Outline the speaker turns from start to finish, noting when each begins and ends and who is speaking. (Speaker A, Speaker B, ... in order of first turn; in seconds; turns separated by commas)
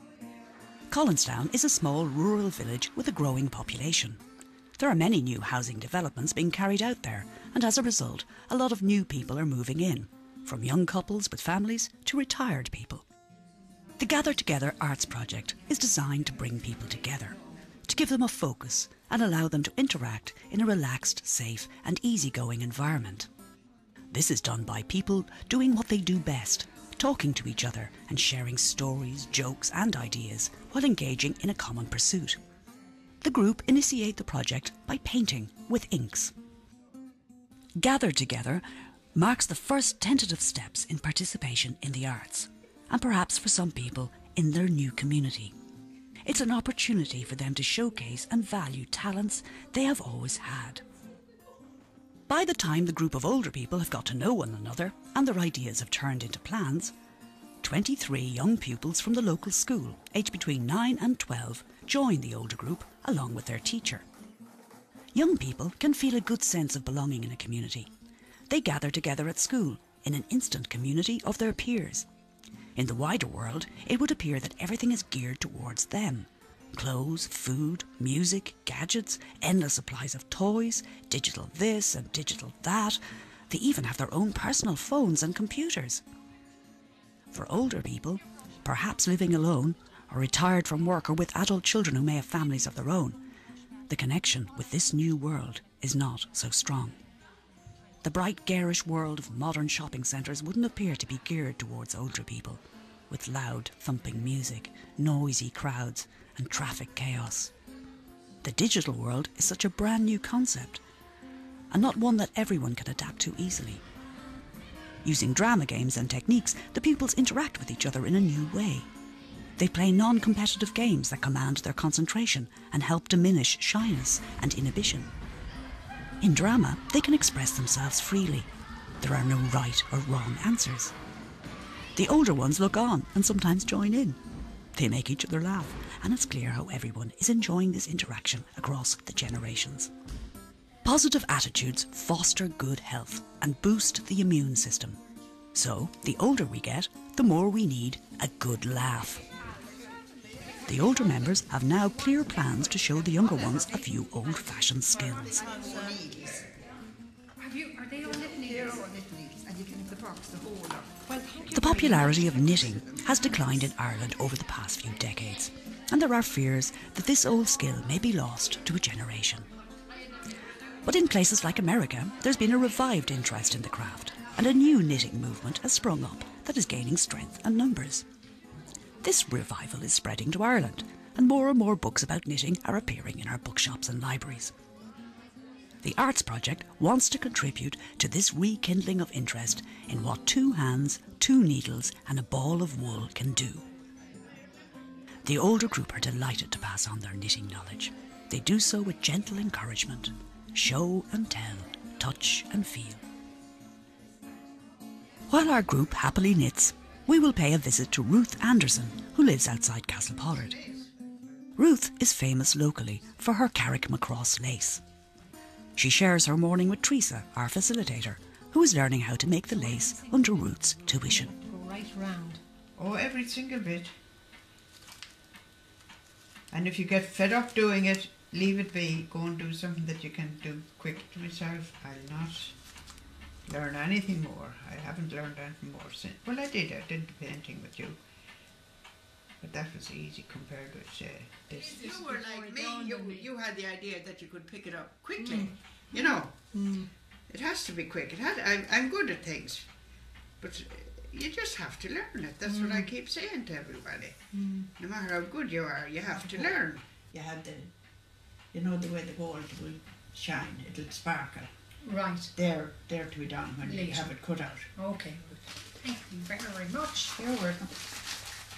Speaker A: 0.9-4.2, Speaker A: 4.8-13.1, Speaker A: 14.0-23.3, Speaker A: 24.1-32.4, Speaker A: 33.2-36.3, Speaker A: 37.8-38.6, Speaker A: 39.1-45.5, Speaker A: 46.2-50.8, Speaker A: 52.3-56.9, Speaker A: 57.6-64.0, Speaker A: 65.1-67.9, Speaker A: 68.5-72.1, Speaker A: 72.8-86.0, Speaker A: 87.3-93.2, Speaker A: 93.9-97.0, Speaker A: 98.0-107.5, Speaker A: 108.4-110.8, Speaker A: 111.7-113.8, Speaker A: 115.0-118.9, Speaker A: 119.6-125.1, Speaker A: 126.2-128.5, Speaker A: 129.0-130.9, Speaker A: 131.9-134.2, Speaker A: 134.7-139.9, Speaker A: 140.8-145.0, Speaker A: 145.5-149.2, Speaker A: 150.7-155.5, Speaker B: 155.4-156.5, Speaker C: 157.4-158.8, Speaker B: 158.0-161.0, Speaker C: 161.1-162.2, Speaker A: 161.5-169.5, Speaker B: 161.6-163.4, Speaker A: 170.8-178.0, Speaker A: 179.0-184.5, Speaker A: 185.8-193.6, Speaker A: 195.2-203.0, Speaker A: 205.3-210.6, Speaker A: 211.6-214.8, Speaker A: 215.8-221.3, Speaker C: 219.7-222.4, Speaker B: 222.8-223.9, Speaker B: 226.5-232.6, Speaker B: 233.4-238.0, Speaker B: 239.4-246.5, Speaker C: 241.8-243.2, Speaker C: 245.3-246.0, Speaker C: 246.5-246.9, Speaker B: 247.3-249.7, Speaker B: 250.4-257.7, Speaker C: 254.3-254.7, Speaker B: 258.5-261.5, Speaker C: 261.8-262.3, Speaker B: 262.3-264.7, Speaker C: 263.6-264.1, Speaker C: 264.8-267.1, Speaker B: 267.1-267.8